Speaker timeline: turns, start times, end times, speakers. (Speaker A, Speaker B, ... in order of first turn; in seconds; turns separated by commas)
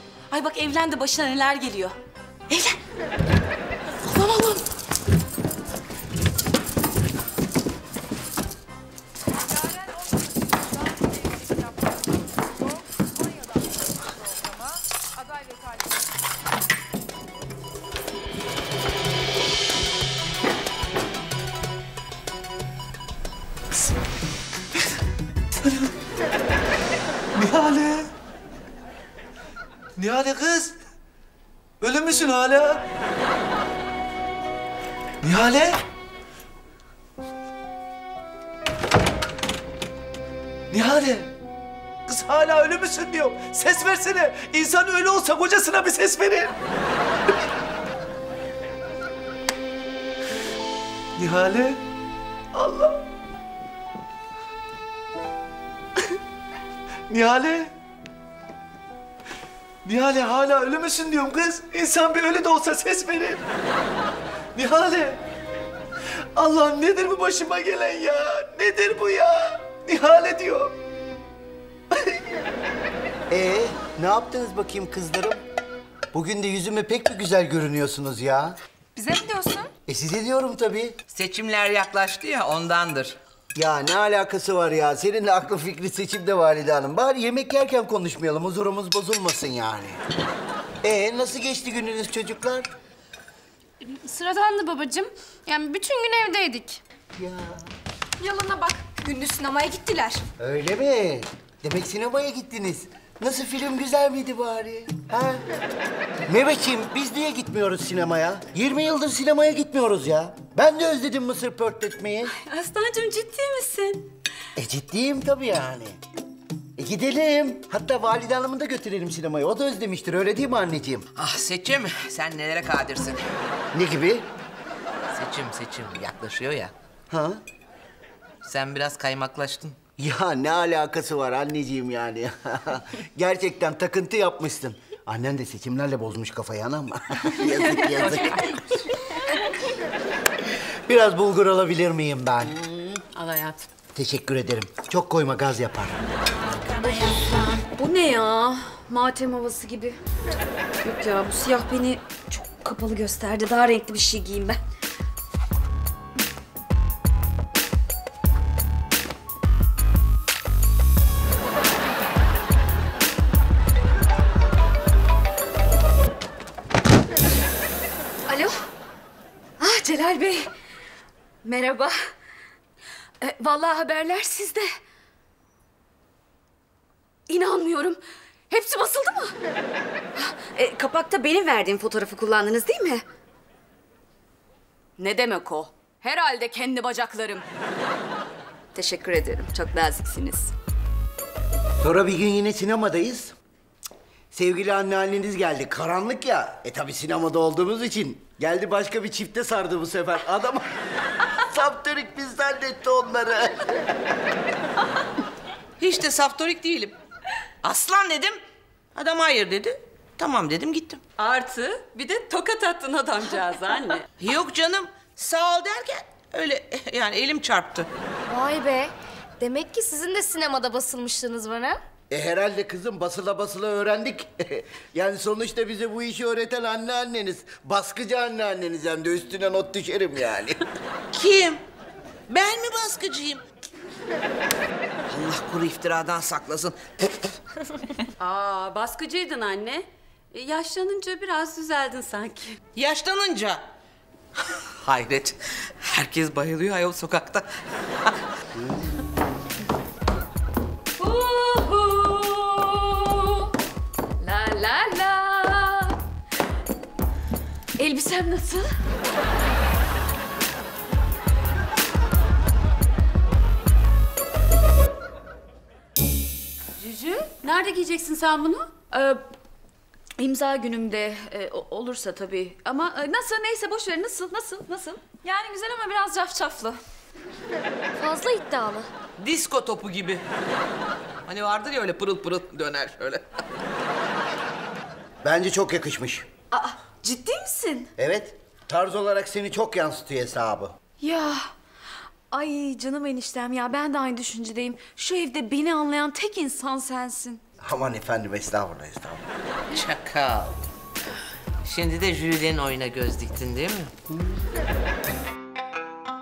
Speaker A: 0.3-1.9, Speaker A: 4.1-4.6, Speaker B: 27.4-28.1, Speaker B: 30.0-30.8, Speaker B: 31.8-32.8, Speaker B: 35.2-35.8, Speaker B: 40.7-41.3, Speaker B: 42.1-46.5, Speaker B: 51.2-51.8, Speaker B: 52.5-53.0, Speaker B: 57.1-57.7, Speaker B: 59.9-63.4, Speaker B: 64.5-65.2, Speaker B: 66.4-70.8, Speaker C: 73.3-75.4, Speaker C: 76.1-78.6, Speaker C: 79.9-81.0, Speaker D: 81.1-83.2, Speaker C: 83.6-90.0, Speaker C: 90.8-92.7, Speaker E: 93.8-96.8, Speaker C: 97.2-97.7, Speaker E: 98.3-100.1, Speaker C: 100.4-105.5, Speaker C: 106.3-112.3, Speaker C: 114.6-116.0, Speaker C: 116.8-121.1, Speaker D: 121.2-123.2, Speaker C: 123.7-124.3, Speaker D: 125.1-126.7, Speaker C: 127.1-127.4, Speaker D: 128.4-129.8, Speaker C: 130.0-138.5, Speaker C: 140.9-142.6, Speaker F: 142.8-143.7, Speaker C: 143.9-146.0, Speaker A: 147.6-150.0, Speaker A: 150.8-154.6, Speaker A: 168.3-168.6, Speaker A: 169.6-170.5, Speaker A: 171.4-172.0, Speaker A: 173.2-174.7, Speaker A: 177.3-178.0, Speaker A: 178.5-179.3, Speaker A: 180.2-183.0, Speaker A: 185.0-187.4, Speaker A: 188.8-190.5, Speaker C: 191.8-193.3, Speaker C: 194.3-200.7, Speaker C: 201.3-203.7, Speaker D: 205.8-207.0, Speaker D: 207.6-208.4, Speaker D: 208.9-211.0, Speaker F: 211.2-214.1, Speaker D: 214.2-217.9, Speaker G: 218.3-221.8, Speaker C: 222.1-230.6, Speaker D: 231.1-231.6, Speaker D: 232.3-233.4, Speaker D: 235.1-237.3, Speaker F: 238.2-242.6, Speaker D: 242.8-243.6, Speaker D: 244.8-247.5, Speaker A: 251.0-253.4, Speaker A: 254.2-256.0, Speaker A: 257.8-258.7, Speaker F: 266.8-268.7, Speaker A: 268.9-269.2, Speaker A: 270.2-276.8, Speaker G: 278.0-278.9, Speaker D: 279.2-280.2, Speaker D: 281.3-283.2, Speaker C: 285.2-286.3, Speaker A: 286.5-287.9, Speaker C: 288.0-290.8, Speaker A: 291.0-291.5, Speaker A: 292.3-297.4, Speaker C: 297.6-299.2, Speaker D: 299.7-300.6, Speaker D: 301.6-303.9